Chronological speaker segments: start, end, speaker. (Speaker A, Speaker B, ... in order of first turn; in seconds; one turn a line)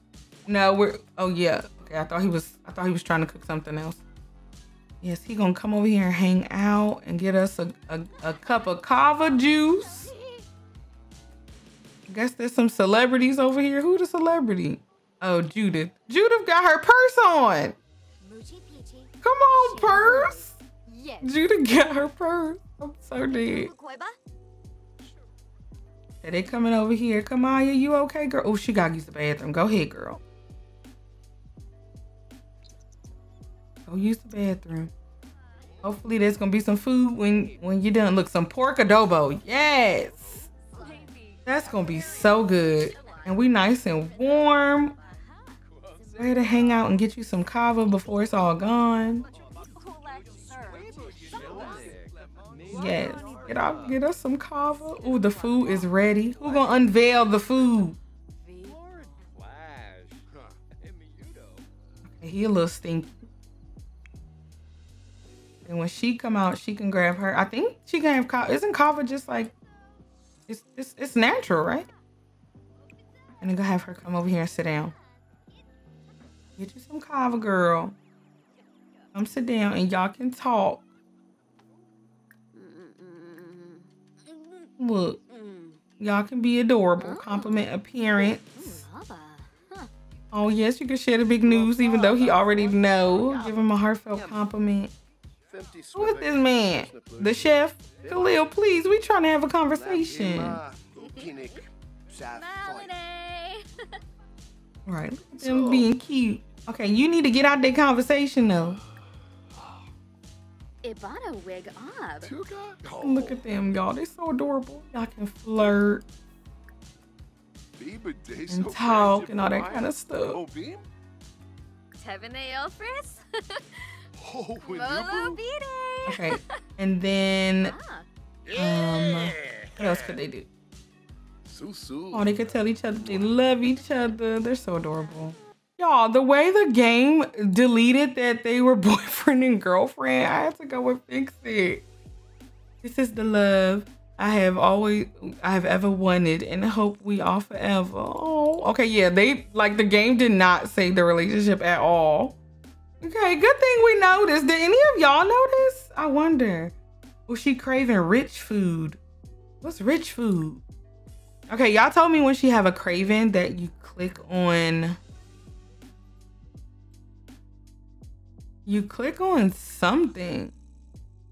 Speaker A: 0.5-4.0
Speaker A: 5.0-10.1
Speaker B: 9.6-10.4
Speaker A: 12.1-17.8
Speaker B: 18.2-21.4
Speaker A: 19.2-20.6
Speaker A: 21.2-23.7
Speaker B: 23.3-24.2
Speaker A: 26.2-30.2
Speaker A: 33.9-34.9
Speaker A: 35.8-40.5
Speaker B: 40.7-43.3
Speaker A: 41.5-44.9
Speaker B: 45.0-45.6
Speaker A: 46.2-49.2
Speaker B: 49.7-51.9
Speaker A: 52.7-58.0
Speaker A: 62.1-63.3
Speaker A: 65.7-69.5
Speaker A: 70.5-71.9
Speaker A: 73.4-74.9
Speaker A: 76.6-78.0
Speaker A: 79.1-80.8
Speaker B: 82.5-84.7
Speaker A: 84.8-85.2
Speaker B: 85.3-85.8
Speaker A: 86.0-88.9
Speaker B: 87.0-89.9
Speaker A: 90.3-94.9
Speaker A: 96.0-100.6
Speaker B: 101.0-101.7
Speaker B: 102.3-103.8
Speaker A: 104.9-108.8
Speaker B: 110.8-112.4
Speaker A: 113.0-116.0
Speaker A: 118.5-120.4
Speaker B: 122.0-124.0
Speaker B: 124.6-126.5
Speaker A: 126.1-127.7
Speaker B: 127.6-128.1
Speaker A: 128.5-130.5
Speaker A: 132.1-141.8
Speaker A: 142.8-152.4
Speaker A: 153.0-156.8
Speaker A: 157.3-159.0
Speaker A: 159.6-160.6
Speaker A: 161.5-165.0
Speaker A: 168.7-170.6